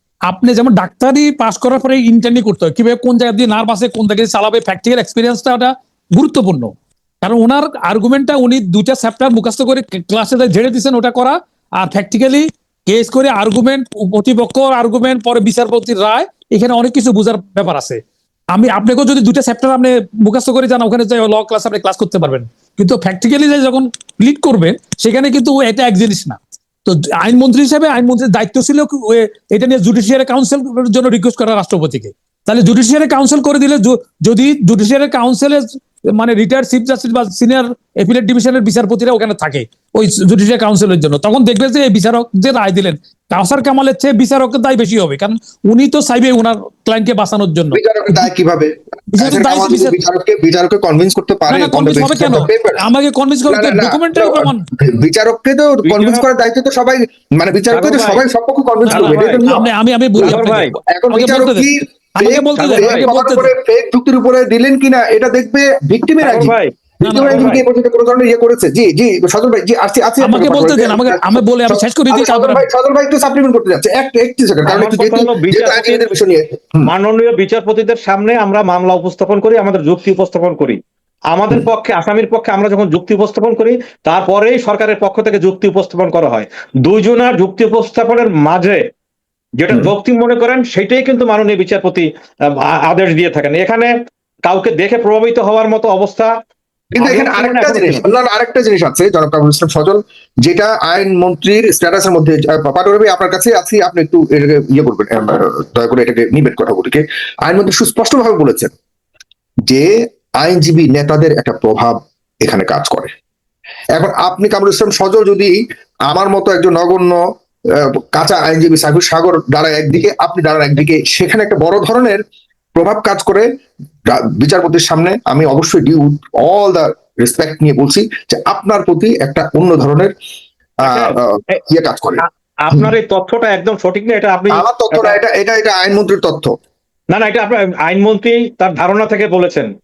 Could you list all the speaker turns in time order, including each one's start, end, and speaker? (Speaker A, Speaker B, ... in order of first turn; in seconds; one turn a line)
Speaker A: 0.3-48.3
Speaker B: 47.7-52.9
Speaker A: 49.1-50.0
Speaker A: 51.5-54.6
Speaker B: 53.5-59.6
Speaker C: 55.9-56.2
Speaker C: 57.7-58.2
Speaker A: 58.9-63.5
Speaker C: 58.9-59.6
Speaker B: 60.2-60.4
Speaker C: 60.2-60.7
Speaker B: 60.9-76.9
Speaker C: 62.5-63.1
Speaker C: 66.2-66.7
Speaker A: 67.0-67.6
Speaker C: 67.2-67.6
Speaker A: 70.2-72.7
Speaker C: 74.7-76.1
Speaker C: 76.8-80.8
Speaker C: 81.3-88.8
Speaker C: 89.6-93.9
Speaker C: 94.4-96.3
Speaker B: 96.9-108.7
Speaker C: 97.0-98.0
Speaker B: 109.7-113.1
Speaker B: 113.9-117.2
Speaker B: 117.8-122.2
Speaker B: 122.7-123.5
Speaker B: 124.1-130.1
Speaker C: 130.8-131.6
Speaker B: 130.8-132.9
Speaker C: 132.2-135.2
Speaker B: 134.5-136.5
Speaker C: 137.1-139.7